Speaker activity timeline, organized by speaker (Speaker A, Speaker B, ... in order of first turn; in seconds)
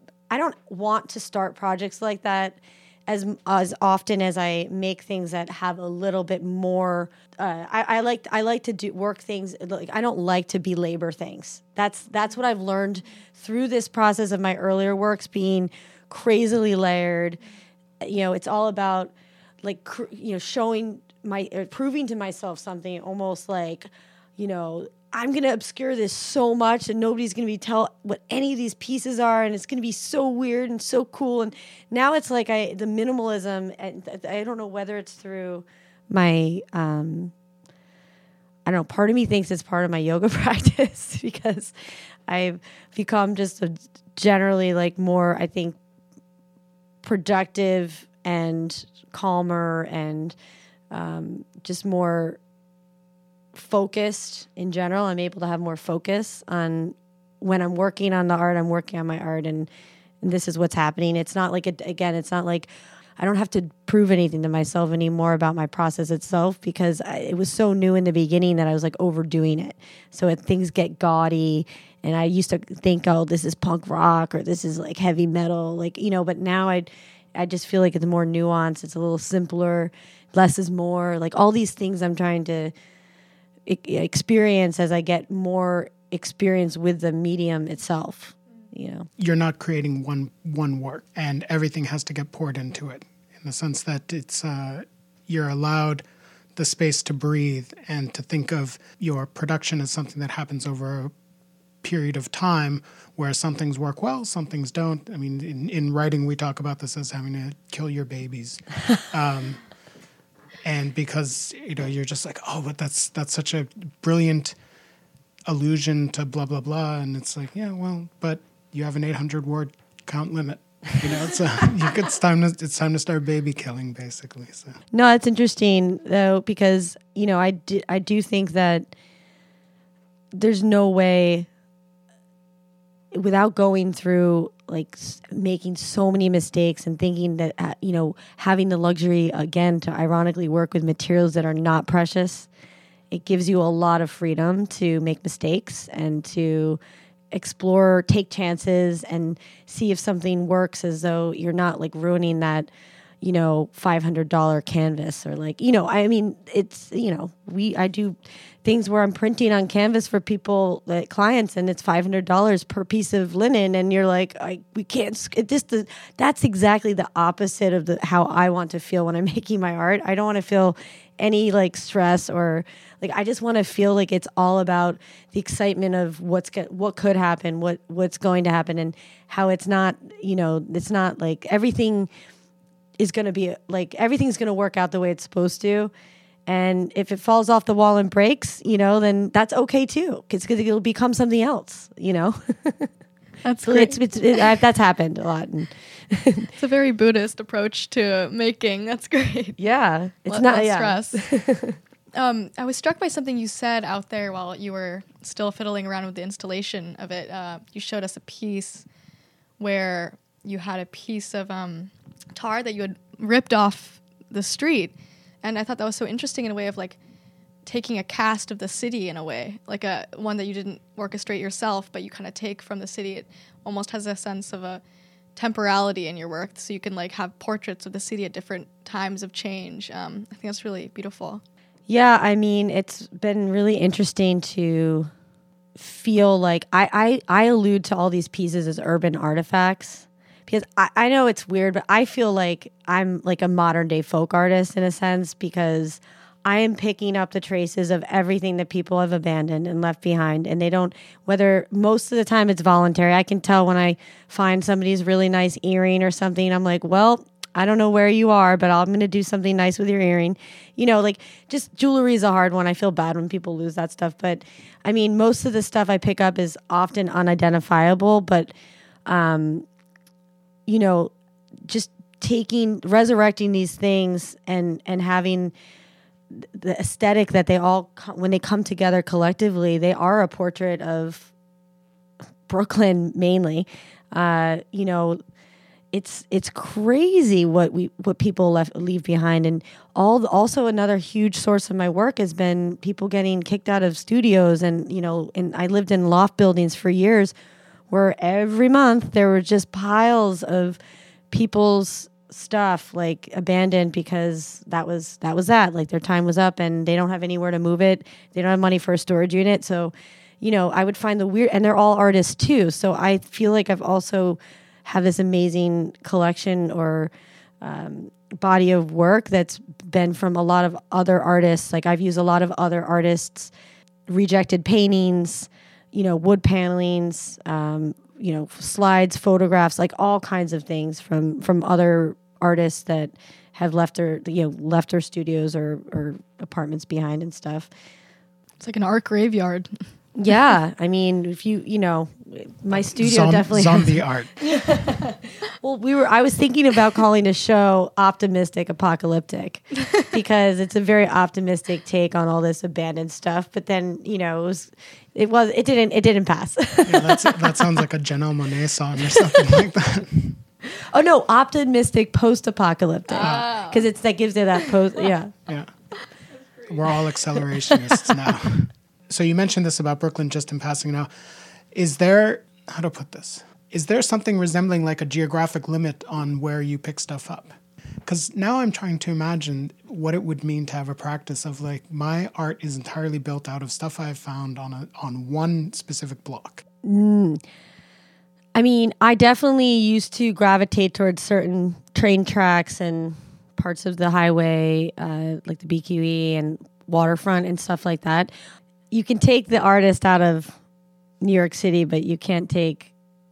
Speaker A: 0.3-17.4, 18.0-37.3, 38.6-41.8, 42.3-45.8, 47.0-50.4, 50.9-52.4, 53.5-59.7, 60.2-82.7, 83.7-89.1, 124.9-128.9, 130.3-131.5, 133.1-142.5, 143.1-146.8, 147.3-152.7, 153.2-182.1, 183.0-185.9, 186.5-192.9, 193.7-196.5, 199.6-201.8, 231.9-235.1, 235.8-268.5, 269.1-269.7, 270.7-271.1, 271.7-275.5, 276.3-281.3, 282.5-285.2, 285.9-297.3, 297.9-300.8, 301.3-323.5, 324.1-337.7, 340.2-357.7, 360.7-365.3, 367.7-368.2, 386.8-387.4, 388.6-398.3, 398.9-400.6, 401.2-402.9
Speaker B: 89.2-96.0, 96.6-101.1, 101.8-109.6, 110.7-114.5, 115.5-124.8, 342.9-344.4, 356.9-360.4, 363.2-363.6, 366.7-371.1, 371.7-377.5, 378.1-386.6
Speaker C: 193.4-194.5, 196.6-199.6, 200.3-201.2, 202.1-208.9, 209.6-217.0, 217.7-224.8, 225.4-231.4, 338.6-339.7, 363.1-363.9